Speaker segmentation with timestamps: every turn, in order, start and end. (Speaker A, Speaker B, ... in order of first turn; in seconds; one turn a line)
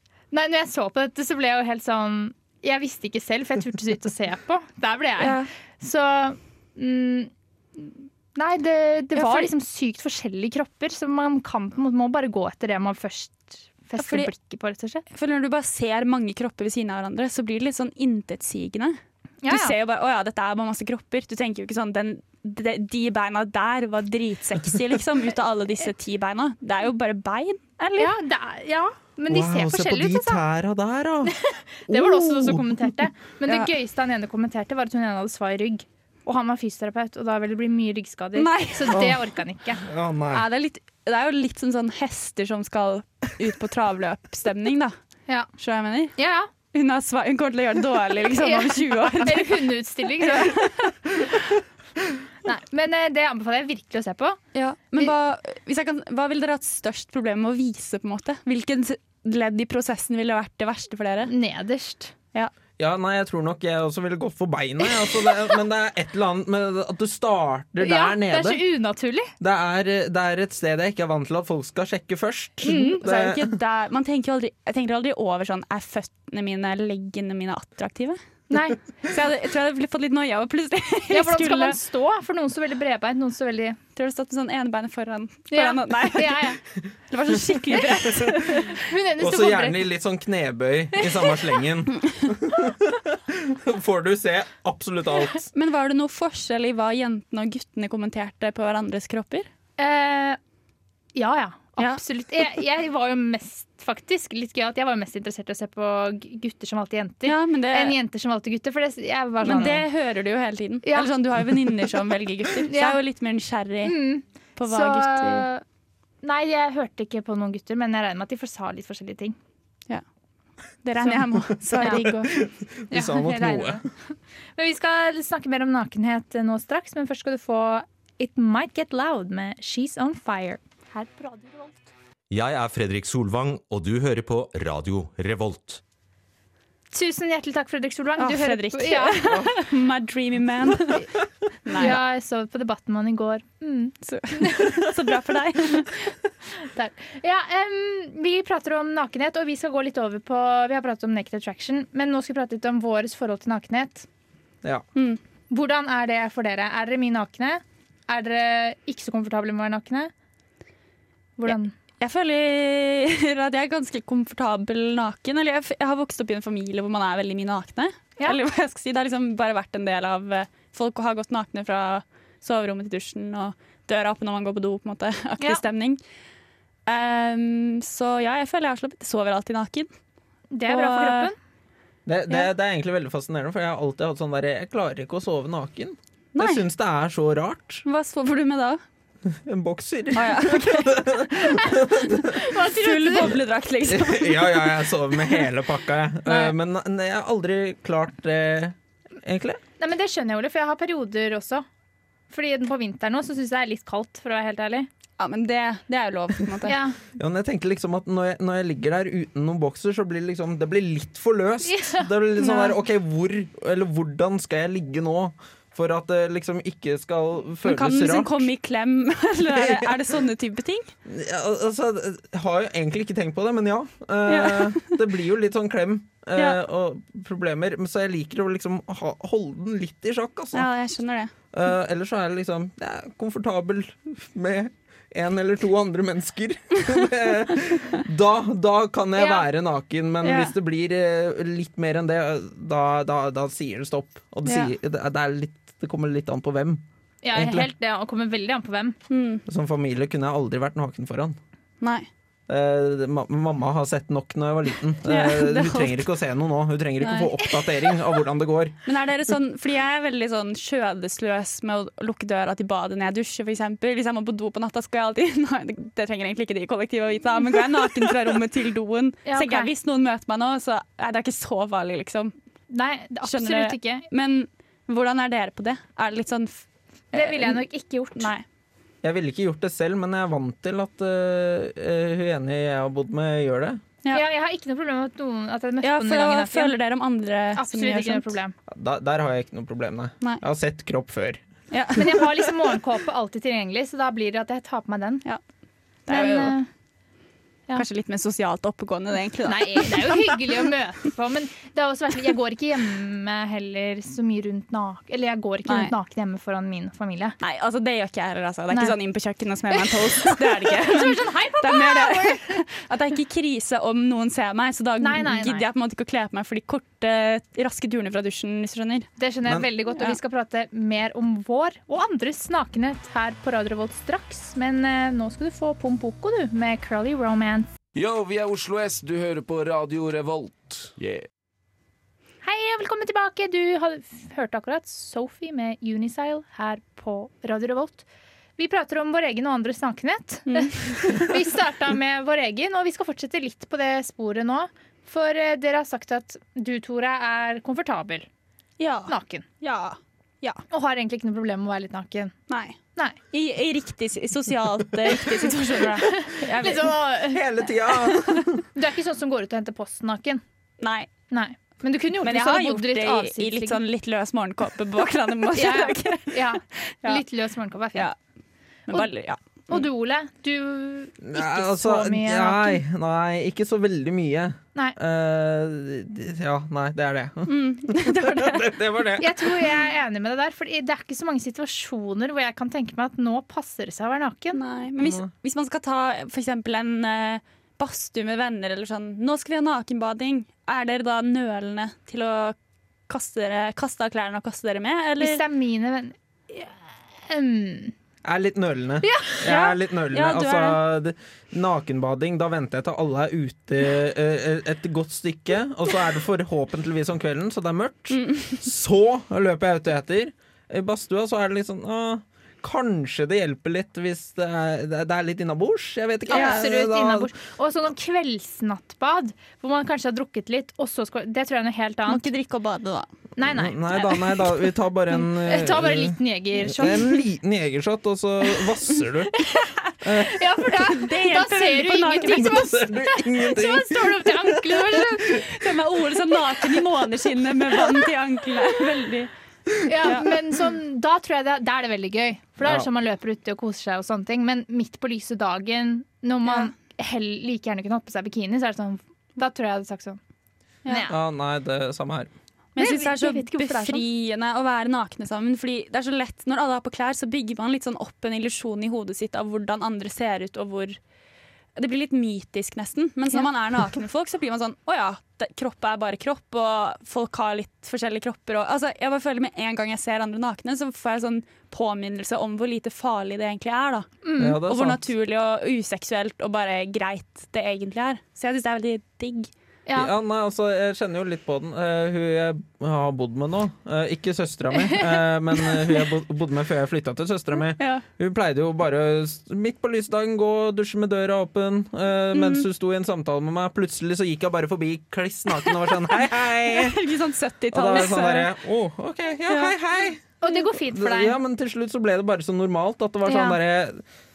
Speaker A: 0.3-7.3
Speaker B: 5.2-5.5
Speaker A: 8.3-15.0
Speaker B: 9.1-9.5
Speaker B: 14.0-14.3
Speaker B: 15.1-28.1
Speaker A: 19.4-19.7
Speaker A: 28.0-30.4
Speaker C: 29.3-32.9
Speaker A: 31.3-39.8
Speaker B: 38.3-39.0
Speaker C: 38.9-39.2
Speaker C: 39.8-40.4
Speaker B: 40.3-44.9
Speaker B: 45.6-46.1
Speaker A: 46.1-46.5
Speaker B: 46.7-51.0
Speaker A: 48.4-50.6
Speaker A: 52.4-54.4
Speaker B: 54.5-61.3
Speaker A: 61.3-62.1
Speaker C: 62.8-68.6
Speaker A: 67.8-69.3
Speaker C: 69.4-73.5
Speaker A: 72.6-73.0
Speaker B: 72.7-78.2
Speaker A: 78.5-78.8
Speaker B: 79.0-81.8
Speaker A: 81.1-83.8
Speaker B: 84.0-86.6
Speaker A: 85.5-86.6
Speaker B: 87.1-88.8
Speaker A: 88.8-89.9
Speaker C: 89.2-95.5
Speaker A: 91.0-91.4
Speaker B: 95.5-99.5
Speaker A: 99.8-100.4
Speaker A: 101.1-109.8
Speaker B: 107.2-108.0
Speaker B: 109.4-114.0
Speaker A: 112.7-113.0
Speaker A: 113.8-115.6
Speaker B: 114.6-115.5
Speaker A: 116.2-119.3
Speaker B: 120.8-122.3
Speaker A: 121.8-122.0
Speaker C: 121.8-123.8
Speaker A: 122.9-131.9
Speaker D: 132.3-135.8
Speaker A: 136.9-139.3
Speaker B: 138.2-141.1
Speaker B: 141.6-142.0
Speaker A: 141.8-144.9
Speaker B: 144.0-146.1
Speaker A: 146.5-154.1
Speaker A: 155.5-160.1
Speaker A: 161.4-161.7
Speaker B: 161.5-176.0
Speaker B: 176.9-179.9
Speaker A: 180.5-181.3
Speaker B: 180.7-181.3
Speaker C: 182.1-187.8
Speaker B: 186.3-186.6
Speaker B: 187.8-188.8
Speaker C: 189.2-192.4
Speaker B: 190.1-191.3
Speaker A: 192.3-193.3
Speaker B: 192.6-194.9
Speaker C: 193.8-199.6
Speaker A: 199.8-201.7
Speaker A: 202.3-204.9
Speaker B: 205.2-206.8
Speaker A: 206.6-207.0
Speaker C: 207.2-218.5
Speaker A: 211.6-212.1
Speaker B: 212.4-212.7
Speaker B: 217.6-220.9
Speaker C: 219.5-220.0
Speaker C: 221.1-230.7
Speaker B: 224.3-224.9
Speaker B: 230.5-231.3
Speaker C: 231.5-246.8
Speaker A: 239.2-239.4
Speaker B: 240.2-240.5
Speaker B: 244.4-244.7
Speaker A: 247.2-249.0
Speaker C: 247.3-247.7
Speaker B: 249.1-249.4
Speaker C: 249.5-251.4
Speaker B: 251.8-252.1
Speaker C: 252.5-258.8
Speaker B: 255.0-256.1
Speaker B: 257.0-257.3
Speaker B: 258.9-272.3
Speaker A: 269.2-269.7
Speaker A: 272.7-274.0
Speaker B: 273.2-277.6
Speaker A: 277.1-278.3
Speaker B: 278.2-278.4
Speaker C: 279.0-283.8
Speaker A: 284.1-286.8
Speaker B: 285.8-288.4
Speaker A: 287.6-288.5
Speaker C: 288.7-291.4
Speaker B: 291.7-292.3
Speaker A: 291.9-295.2
Speaker B: 296.1-296.6
Speaker A: 296.1-296.7
Speaker B: 297.7-300.6
Speaker A: 299.4-307.4
Speaker B: 305.7-305.9
Speaker B: 307.4-319.1
Speaker A: 308.7-308.9
Speaker A: 309.7-312.6
Speaker A: 315.0-315.6
Speaker A: 319.2-327.7
Speaker E: 327.9-331.2
Speaker A: 332.4-338.0
Speaker A: 338.6-348.3
Speaker B: 340.5-341.3
Speaker B: 348.8-350.6
Speaker A: 349.1-349.4
Speaker A: 350.7-352.3
Speaker B: 352.5-352.8
Speaker B: 353.3-357.0
Speaker A: 356.0-357.4
Speaker C: 357.2-358.6
Speaker A: 358.7-360.4
Speaker B: 360.8-361.1
Speaker A: 361.3-363.8
Speaker B: 362.2-367.2
Speaker A: 365.5-368.1
Speaker B: 368.9-369.8
Speaker A: 369.7-372.8
Speaker C: 371.2-379.4
Speaker B: 377.5-378.8
Speaker A: 379.2-384.6
Speaker B: 384.5-392.6
Speaker C: 385.0-385.3
Speaker B: 393.1-395.4
Speaker A: 395.2-397.9
Speaker C: 398.2-417.3
Speaker A: 399.0-399.4
Speaker B: 399.4-400.8
Speaker B: 408.1-408.6
Speaker A: 416.3-422.2
Speaker B: 416.3-416.6
Speaker B: 422.1-423.1
Speaker A: 423.4-424.5
Speaker C: 423.4-429.4
Speaker A: 425.4-427.1
Speaker A: 429.4-435.4
Speaker C: 430.0-430.4
Speaker B: 430.8-432.7
Speaker C: 432.3-435.4
Speaker B: 435.4-439.3
Speaker A: 439.8-450.2
Speaker B: 440.0-440.3
Speaker A: 450.9-451.1
Speaker C: 451.1-452.3
Speaker B: 452.8-461.0
Speaker A: 452.8-454.0
Speaker B: 461.8-479.5
Speaker A: 474.2-474.6
Speaker C: 474.4-475.0
Speaker C: 479.9-497.0
Speaker A: 484.7-485.1
Speaker B: 487.8-488.0
Speaker B: 492.3-492.7
Speaker B: 495.6-498.5
Speaker C: 497.7-504.0
Speaker B: 499.5-499.8
Speaker A: 500.4-501.4
Speaker A: 503.2-503.6